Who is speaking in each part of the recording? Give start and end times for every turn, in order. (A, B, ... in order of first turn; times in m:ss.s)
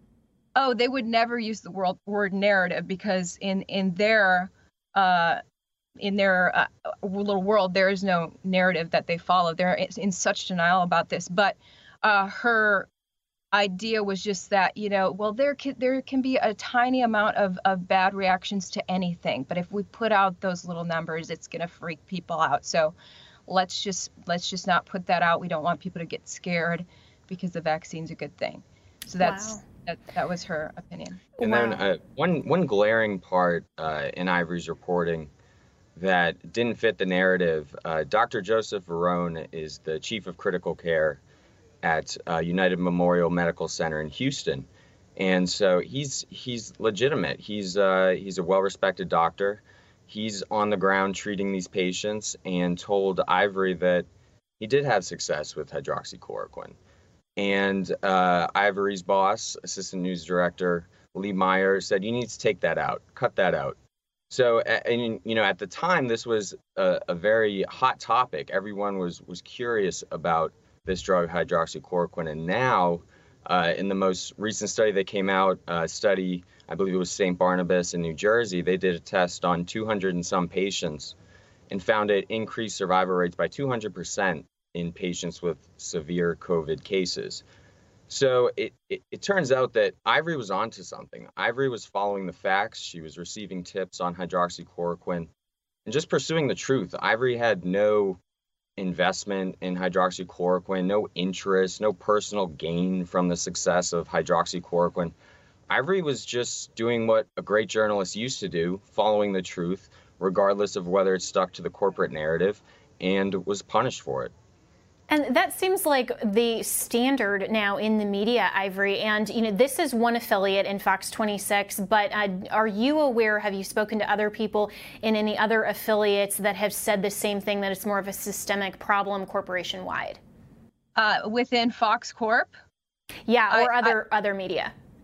0:00.6-0:05.4 A
0:06.0-0:12.9 A
0:13.5-0:22.9 A
0:23.5-0:31.4 A
0:29.2-0:29.6 B
0:31.4-0:31.8 B
0:31.4-0:35.3 C
0:36.0-0:41.2 C
0:41.8-0:54.1 C
0:54.6-0:56.8 C
0:57.4-1:03.8 C
1:04.3-1:21.1 C
1:21.7-1:27.4 C
1:28.1-1:35.3 C
1:35.9-1:38.2 C
1:38.8-1:45.1 C
1:45.7-1:54.3 C
1:55.1-2:10.2 B
2:11.0-2:12.5 A
2:13.3-2:14.7 B
2:13.5-2:14.0 A